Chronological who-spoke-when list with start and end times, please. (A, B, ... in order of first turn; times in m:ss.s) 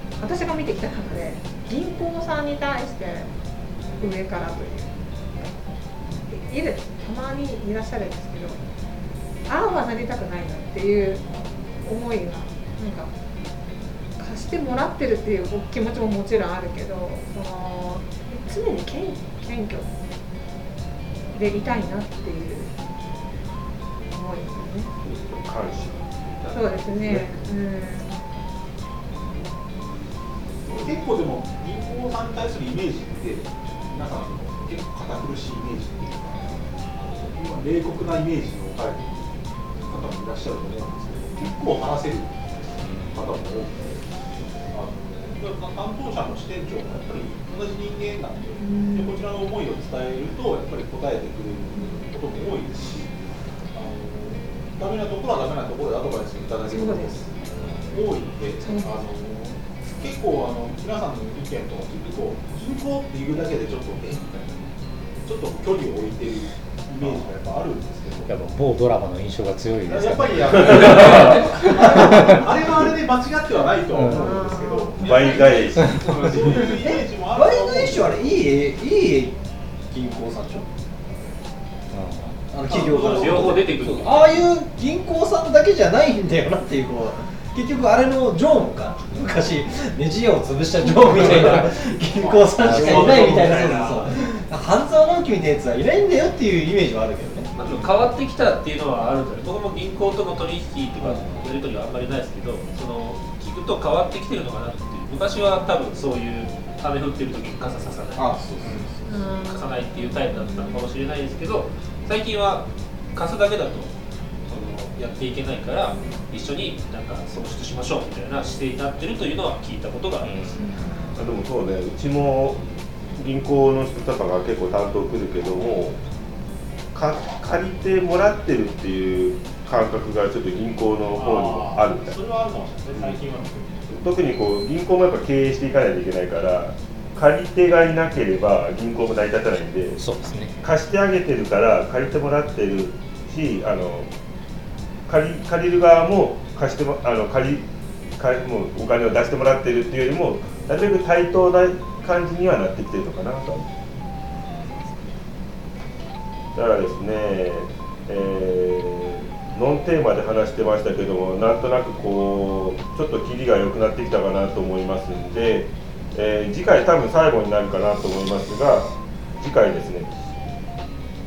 0:00.2-0:03.3 A
0:04.0-0:05.7 A
0:06.2-0:08.6 A
0:09.5-0:11.3 A
0:11.8-0:13.1 A
0:14.2-0:19.9 A
0:21.3-0:22.7 A
0:24.1-0:24.9 A
0:25.0-0:27.3 B
0:26.5-0:28.3 A
0:30.6-0:39.3 C
0:39.8-0:42.4 C
0:42.8-0:43.2 D
0:43.0-0:44.1 C
0:44.6-1:04.6 C
0:48.6-0:49.2 A
0:51.7-0:52.0 A
0:56.7-0:57.2 A
0:58.6-0:59.0 A
1:05.2-1:08.3 C
1:08.3-1:12.4 D
1:09.8-1:18.4 C
1:14.0-1:14.4 D
1:14.3-1:15.0 A
1:15.0-1:16.0 B
1:15.8-1:16.3 D
1:16.9-1:20.7 E
1:21.9-1:22.5 D
1:22.5-1:37.5 E
1:22.7-1:23.6 C
1:22.7-1:24.5 F
1:32.2-1:33.6 C
1:32.6-1:34.1 F
1:37.6-1:48.8 F
1:48.1-1:49.3 E
1:49.1-1:49.9 A
1:49.4-1:54.0 F
1:54.5-2:00.6 F
1:55.9-1:56.2 E
2:00.2-2:02.6 B
2:00.6-2:01.0 A
2:03.2-2:06.0 B
2:06.9-2:12.2 B
2:11.1-2:14.0 C
2:12.9-2:13.2 B
2:13.9-2:20.0 B
2:20.0-2:20.6 D
2:20.6-2:24.1 B
2:25.1-2:27.6 B
2:28.2-2:33.7 B
2:34.5-2:34.9 E
2:36.5-2:50.1 B